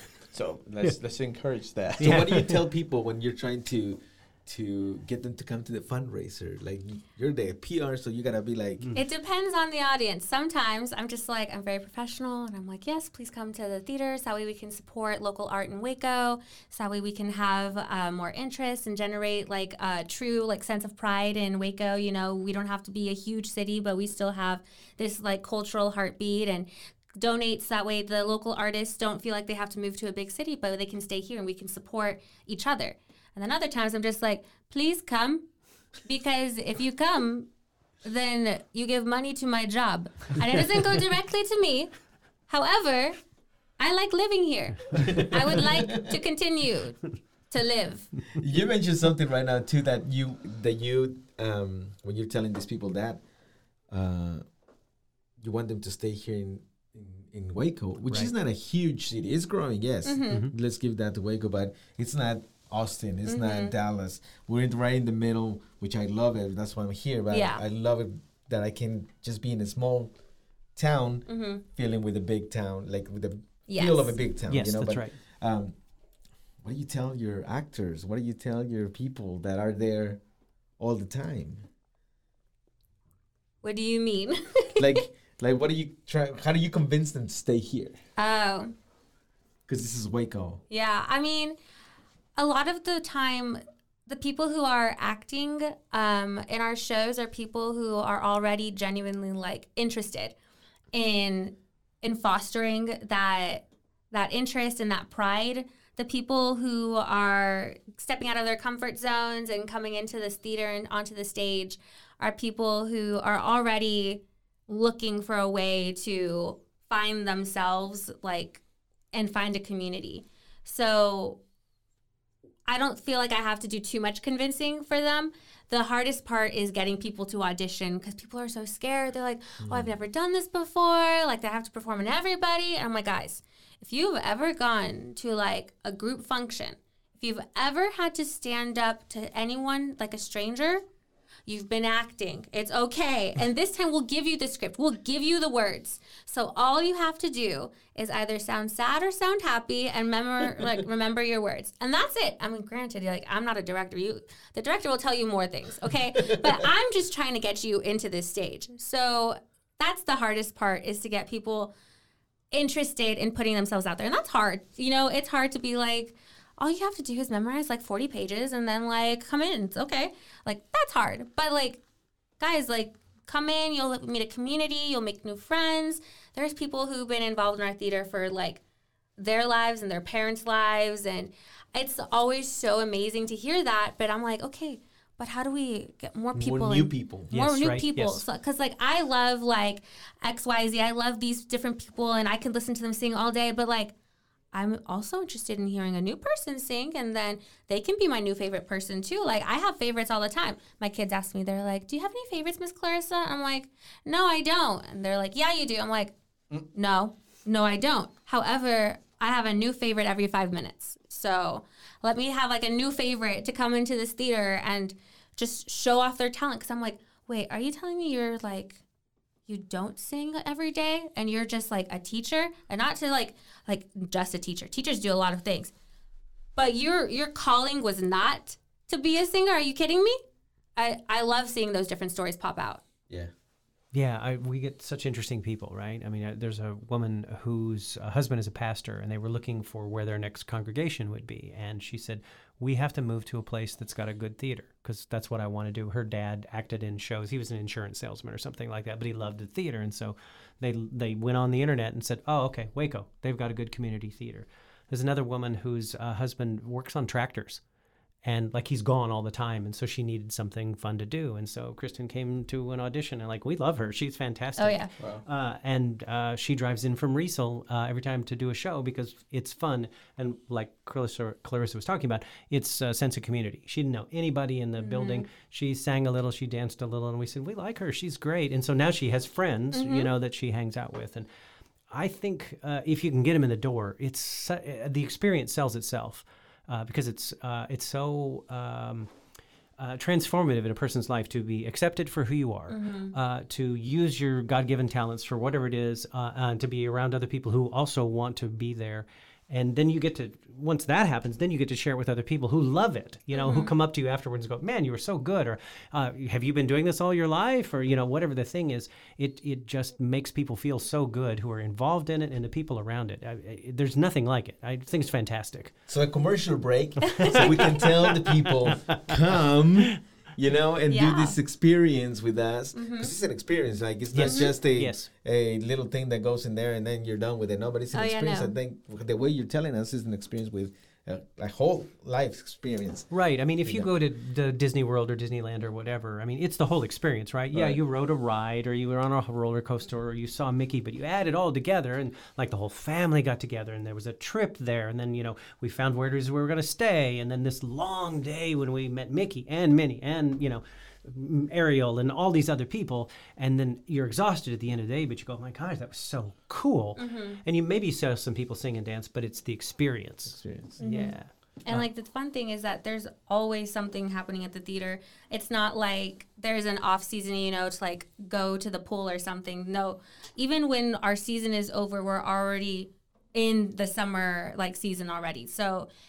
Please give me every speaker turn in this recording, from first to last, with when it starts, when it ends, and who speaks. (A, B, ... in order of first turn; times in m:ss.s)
0:00.3-0:02.4 A
0:02.0-0:08.8 B
0:02.0-0:02.5 C
0:08.9-0:35.4 D
0:36.0-0:37.5 D
0:38.0-0:41.9 D
0:42.5-0:43.2 D
0:43.8-0:48.1 D
0:45.0-0:46.1 B
0:48.4-0:53.2 B
0:53.9-0:54.4 B
0:55.4-1:10.1 B
1:00.0-1:00.5 D
1:03.3-1:03.7 D
1:07.3-1:07.6 D
1:10.8-1:15.8 B
1:11.3-1:11.6 D
1:13.7-1:14.1 D
1:14.5-1:15.2 C
1:16.6-1:20.2 B
1:20.8-1:21.7 B
1:23.6-1:25.0 D
1:24.8-1:28.0 B
1:28.2-1:28.7 D
1:29.7-1:30.6 B
1:30.7-1:31.6 D
1:32.4-1:40.3 D
1:40.9-1:58.6 D
1:59.1-2:01.4 D
2:02.7-2:20.8 D
2:09.6-2:09.9 B
2:21.5-2:41.7 D
2:36.2-2:36.6 B
2:42.5-2:51.8 D
2:52.4-2:58.6 D
2:59.2-3:13.9 D
3:06.4-3:07.3 B
3:07.3-3:08.2 C
3:14.5-3:26.1 D
3:26.7-3:38.8 D
3:39.5-3:45.7 D
3:46.6-3:50.2 D
3:50.8-3:52.8 D
3:53.9-4:17.6 C
4:18.2-4:41.2 C
4:24.6-4:24.9 D
4:25.0-4:25.2 A
4:34.8-4:35.2 D
4:39.7-4:40.1 D
4:41.9-4:49.1 C
4:49.8-5:15.7 C
4:52.7-4:53.1 D
5:03.3-5:03.7 D
5:15.9-5:33.1 B
5:17.1-5:17.8 D
5:17.2-5:19.1 C
5:20.9-5:21.4 D
5:22.7-5:23.1 D
5:24.1-5:25.1 C
5:24.2-5:24.5 D
5:27.9-5:28.5 D
5:33.1-6:01.9 C
5:33.6-5:33.9 B
5:57.0-5:57.4 D
6:00.4-6:00.8 B
6:00.8-6:01.1 D
6:01.6-6:15.9 D